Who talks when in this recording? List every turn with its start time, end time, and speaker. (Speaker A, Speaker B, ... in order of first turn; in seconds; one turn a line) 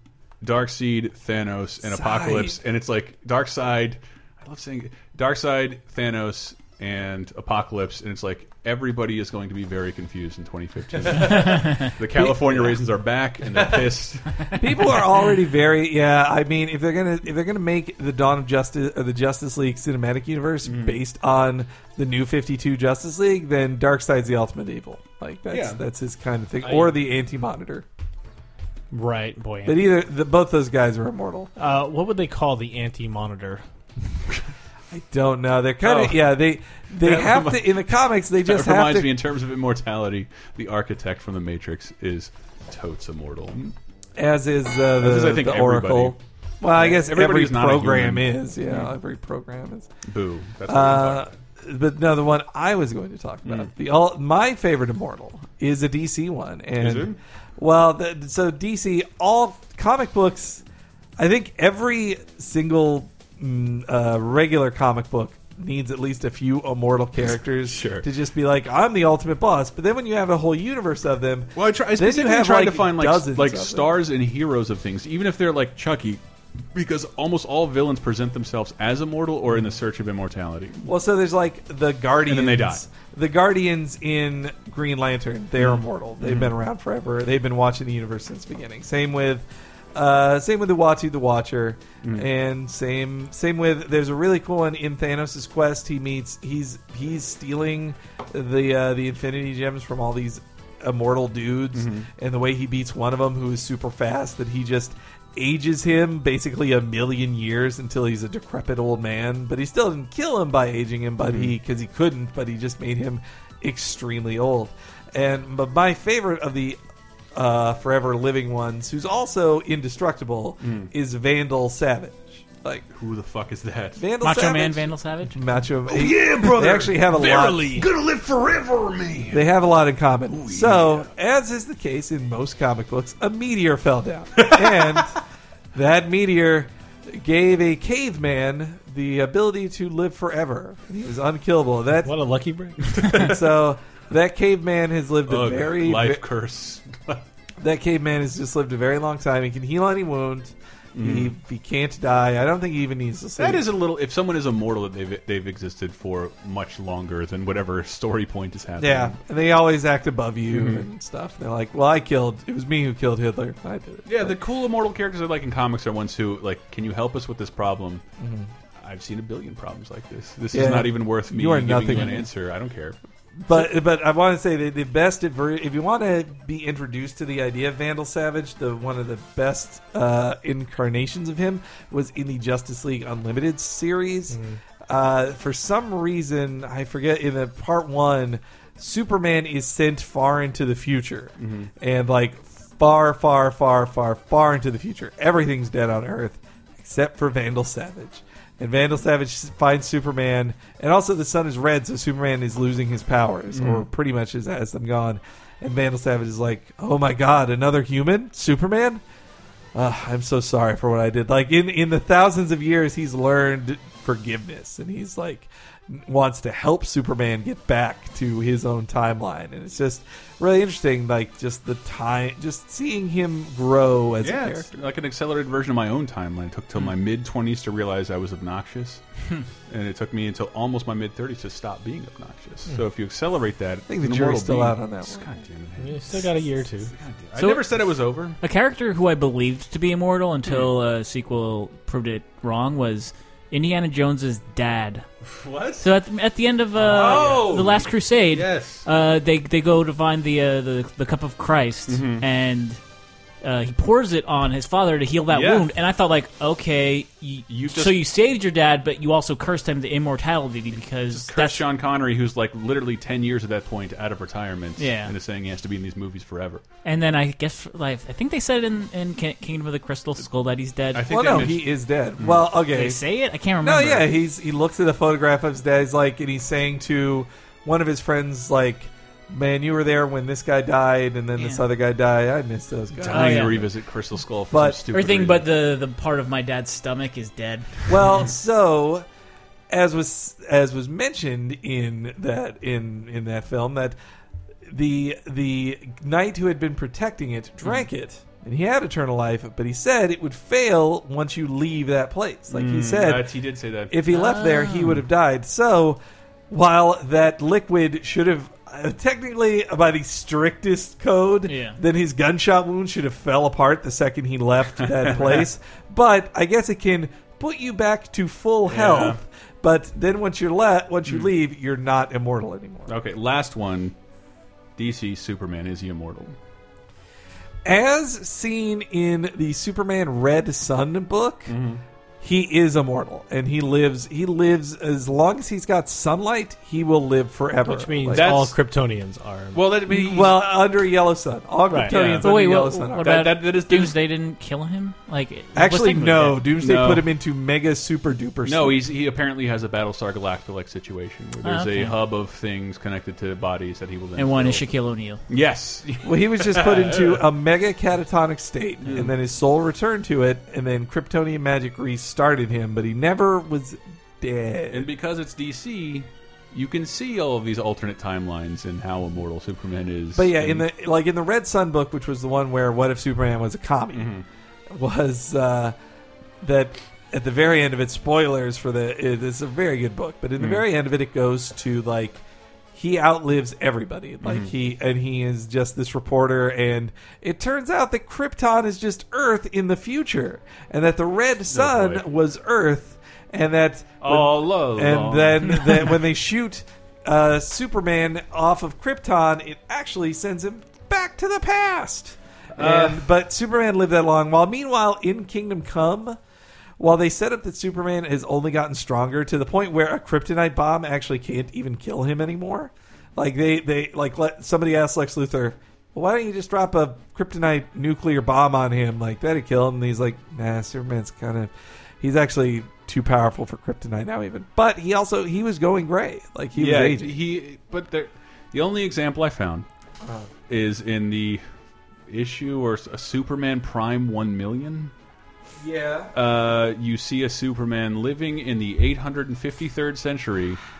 Speaker A: 0.4-14.5
Speaker B: 1.9-2.6
Speaker C: 11.5-11.9
Speaker B: 12.2-12.8
Speaker B: 14.6-27.9
Speaker A: 20.6-21.0
Speaker A: 25.5-25.8
Speaker D: 26.6-26.9
Speaker D: 28.9-29.9
Speaker B: 29.7-31.5
Speaker D: 31.6-33.6
Speaker B: 34.9-39.2
Speaker A: 35.8-36.4
Speaker A: 37.0-43.8
Speaker B: 44.2-49.9
Speaker A: 45.0-46.2
Speaker A: 46.7-48.9
Speaker A: 50.1-51.3
Speaker B: 50.7-60.6
Speaker A: 53.5-53.7
Speaker A: 56.8-57.2
Speaker B: 61.2-73.9
Speaker A: 67.7-68.1
Speaker A: 71.6-76.2
Speaker A: 76.7-80.9
Speaker B: 80.8-116.8
Speaker A: 82.3-82.8
Speaker A: 85.6-86.5
Speaker A: 101.7-102.1
Speaker A: 111.2-111.5
Speaker B: 117.3-122.9
Speaker A: 120.6-120.9
Speaker A: 122.9-124.1
Speaker B: 124.0-127.9
Speaker C: 124.2-125.4
Speaker A: 125.9-129.5
Speaker B: 129.3-135.2
Speaker A: 130.3-131.1
Speaker A: 134.4-135.1
Speaker B: 135.7-142.1
Speaker D: 142.1-143.1
Speaker A: 142.8-143.3
Speaker B: 143.0-146.2
Speaker A: 145.3-147.2
Speaker B: 147.6-153.7
Speaker A: 150.9-151.3
Speaker A: 153.4-159.2
Speaker B: 158.8-164.4
Speaker A: 160.5-160.8
Speaker A: 164.1-168.0
Speaker B: 168.2-168.5
Speaker A: 168.8-173.0
Speaker B: 170.5-172.3
Speaker B: 173.4-209.0
Speaker D: 184.3-184.6
Speaker A: 191.4-191.7
Speaker A: 203.5-203.9
Speaker B: 209.7-224.7
Speaker A: 224.2-229.0
Speaker A: 229.7-238.4
Speaker B: 233.9-235.3
Speaker D: 235.8-236.9
Speaker C: 237.4-237.7
Speaker C: 238.4-245.1
Speaker A: 245.3-245.8
Speaker C: 245.8-252.8
Speaker A: 246.8-248.8
Speaker D: 247.1-247.6
Speaker A: 251.9-252.2
Speaker C: 253.4-261.6
Speaker A: 255.3-255.7
Speaker A: 257.5-258.0
Speaker A: 261.1-266.6
Speaker C: 264.8-265.1
Speaker C: 266.8-271.4
Speaker A: 270.9-272.5
Speaker B: 271.0-273.0
Speaker C: 272.7-274.1
Speaker B: 273.6-283.7
Speaker A: 283.0-285.5
Speaker C: 283.1-283.7
Speaker B: 284.5-284.8
Speaker C: 284.9-287.9
Speaker B: 287.9-289.1
Speaker B: 289.7-294.0
Speaker B: 294.7-303.3
Speaker A: 302.5-304.0
Speaker B: 303.9-306.0
Speaker C: 304.1-305.0
Speaker B: 306.5-323.0
Speaker C: 311.5-311.8
Speaker A: 315.1-315.4
Speaker A: 318.7-319.2
Speaker A: 321.1-321.3
Speaker A: 322.9-323.9
Speaker A: 324.8-326.4
Speaker B: 327.6-331.5
Speaker A: 331.5-331.8
Speaker B: 332.2-338.4
Speaker D: 337.7-339.6
Speaker A: 338.1-338.6
Speaker A: 339.5-340.4
Speaker B: 339.9-343.3
Speaker A: 341.8-342.4
Speaker C: 342.0-346.5
Speaker A: 343.0-344.0
Speaker B: 345.6-348.8
Speaker A: 346.6-347.1
Speaker A: 348.4-354.6
Speaker C: 351.4-352.0
Speaker C: 354.2-355.2
Speaker A: 355.3-357.2
Speaker B: 356.0-364.9
Speaker A: 358.8-359.1
Speaker A: 364.7-370.6
Speaker B: 370.1-374.1
Speaker A: 373.9-374.2
Speaker B: 374.7-375.8
Speaker B: 376.4-382.2
Speaker A: 380.4-380.6
Speaker B: 382.7-406.2
Speaker A: 384.2-384.5
Speaker A: 391.5-392.0
Speaker A: 394.0-395.9
Speaker A: 402.6-403.1
Speaker B: 406.8-427.2
Speaker A: 426.6-429.7
Speaker B: 430.0-430.3
Speaker A: 430.5-431.4
Speaker A: 432.1-434.9
Speaker B: 435.6-436.1
Speaker A: 436.1-440.6